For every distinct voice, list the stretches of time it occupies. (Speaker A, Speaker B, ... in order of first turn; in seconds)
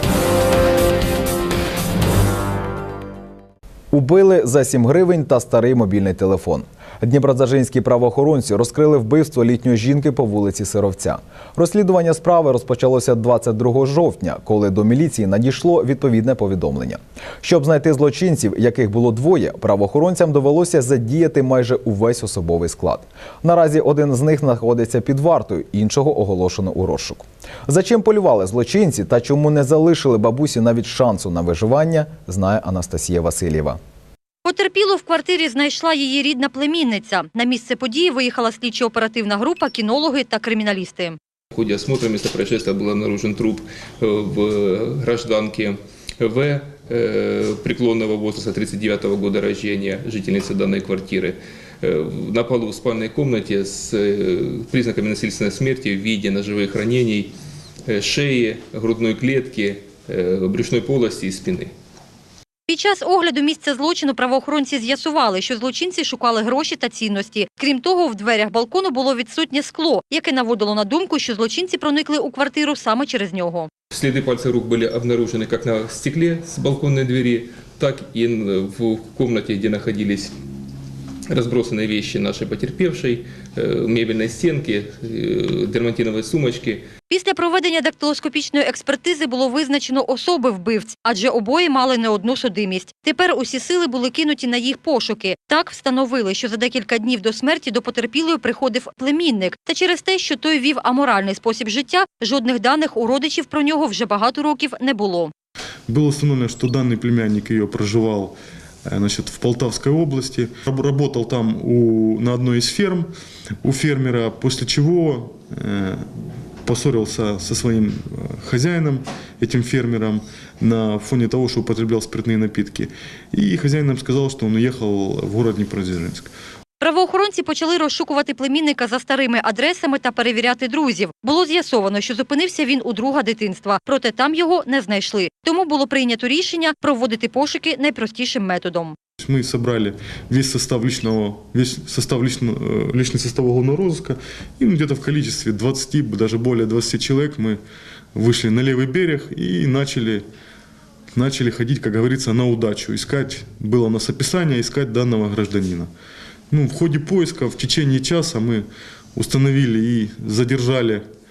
Speaker A: 3.9-33.8
Speaker B: 34.4-41.2, 62.7-73.7, 87.1-105.3, 126.8-138.9
Speaker C: 41.5-57.3, 57.9-61.7, 73.9-80.3, 81.3-86.9
Speaker D: 105.9-113.1, 113.6-116.1, 116.7-126.3, 139.2-147.6, 148.1-150.2, 151.1-155.9, 156.5-161.1